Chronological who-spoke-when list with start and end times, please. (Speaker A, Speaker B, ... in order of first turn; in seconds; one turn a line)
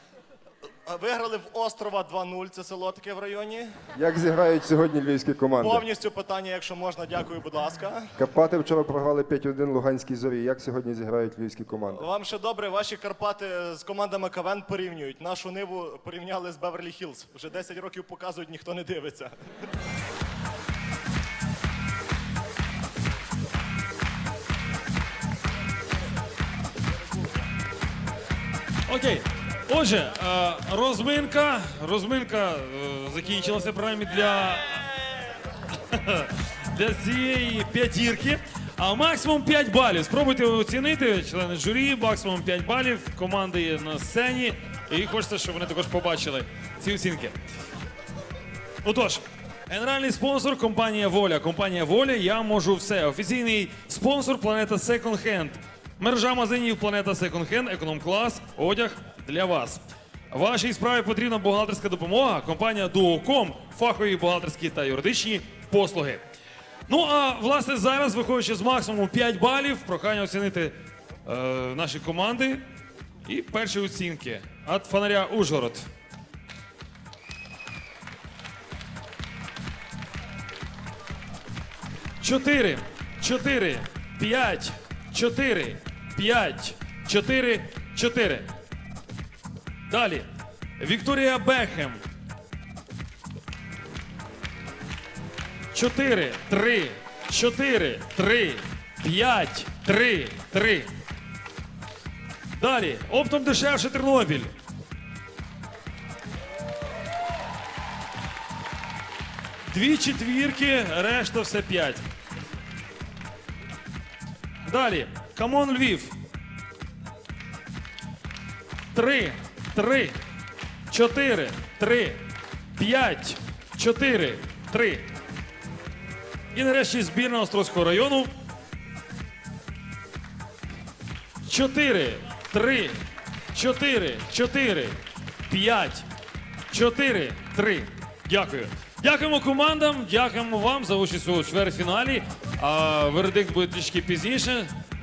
Speaker A: 0.9-3.7
Speaker B: 4.0-5.8
Speaker A: 5.6-8.1
Speaker B: 8.2-12.1
Speaker A: 11.9-19.3
Speaker C: 28.9-34.8
Speaker C: 35.9-47.4
Speaker C: 48.8-66.2
Speaker C: 66.9-70.7
Speaker C: 71.3-72.6
Speaker C: 73.2-75.9
Speaker C: 82.2-88.5
Speaker C: 89.9-90.3
Speaker C: 90.8-92.0
Speaker C: 95.7-100.9
Speaker C: 102.6-104.5
Speaker C: 109.7-112.0
Speaker C: 114.7-116.1
Speaker C: 118.9-120.1
Speaker C: 120.9-122.2
Speaker C: 122.8-125.1
Speaker C: 126.5-128.3
Speaker C: 131.4-133.0
Speaker C: 133.5-136.1
Speaker C: 136.7-144.7